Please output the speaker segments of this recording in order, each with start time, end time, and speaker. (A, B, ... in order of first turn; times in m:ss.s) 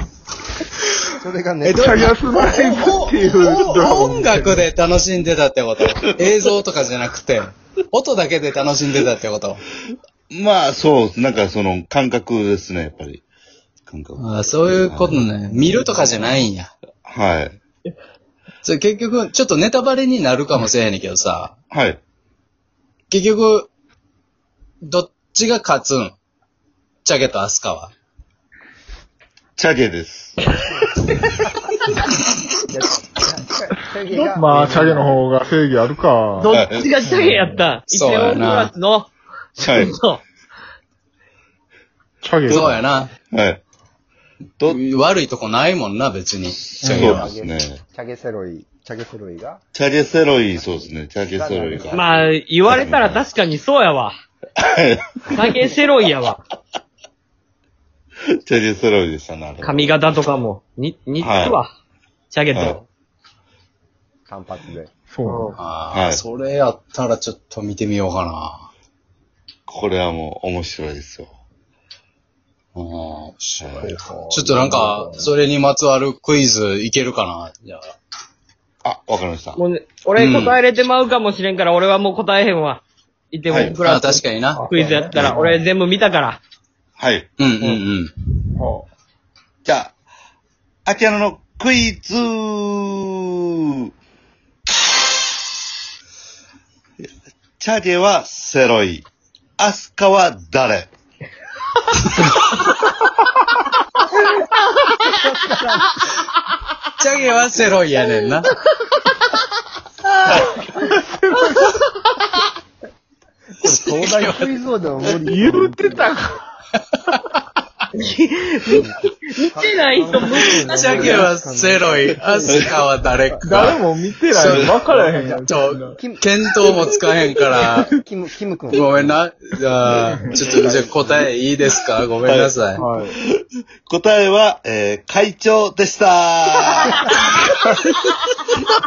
0:01.2-0:03.0 A
0:01.6-0:09.6 B
0:01.7-0:04.7 C
0:10.3-0:13.2 D
0:13.9-0:15.8 D
0:14.2-0:16.7 B
0:17.0-0:17.6 D
0:18.6-0:21.5 B
0:21.7-0:22.0 D
0:23.1-0:23.7 B
0:24.8-0:26.1 B
0:27.0-0:27.9 B
0:29.6-0:30.4 D
0:32.7-0:35.2 A
0:34.3-0:36.5 C
0:36.4-0:40.2 E
0:36.5-0:36.9 D
0:37.0-0:37.7 C
0:37.9-0:38.7 B
0:39.6-0:40.0 D
0:42.2-0:42.8 C
0:42.5-0:42.7 D
0:42.5-0:43.1 B
0:43.3-0:43.6 D
0:44.6-0:47.3 B
0:46.5-0:47.8 D
0:46.8-0:47.1 C
0:46.9-0:49.6 A
0:49.7-0:53.2 D
0:50.5-0:52.4 A
0:51.9-0:54.1 E
0:54.6-0:55.3 D
0:55.3-0:56.4 E
0:58.4-1:00.0 D
0:59.6-1:01.7 E
1:01.2-1:01.6 D
1:02.3-1:02.8 E
1:04.3-1:04.9 A
1:05.1-1:05.6 C
1:05.5-1:08.7 B
1:05.9-1:06.2 D
1:09.7-1:11.3 D
1:12.7-1:17.9 B
1:13.8-1:15.3 A
1:14.0-1:15.0 C
1:18.8-1:19.6 D
1:19.6-1:26.4 E
1:20.1-1:20.6 B
1:23.5-1:23.8 D
1:23.8-1:24.6 B
1:24.5-1:25.6 C
1:27.0-1:27.3 D
1:27.4-1:28.1 B
1:28.6-1:28.9 C
1:29.6-1:29.9 D
1:30.8-1:33.3 D
1:37.0-1:39.0 D
1:39.6-1:40.9 D
1:42.1-1:42.4 E
1:44.9-1:45.9 A
1:47.0-1:48.5 B
1:50.2-1:51.9 E
1:51.0-1:51.7 C
1:53.6-1:56.1 A
1:53.6-1:54.6 B
1:55.1-1:56.4 C
1:57.9-2:01.3 E
1:58.7-2:03.7 A
2:00.6-2:04.8 B
2:03.4-2:06.0 C
2:04.8-2:06.5 A
2:05.5-2:07.9 B
2:07.8-2:09.2 A
2:08.7-2:12.8 B
2:09.9-2:10.5 C
2:10.4-2:11.3 A
2:12.2-2:17.2 D
2:12.7-2:13.1 C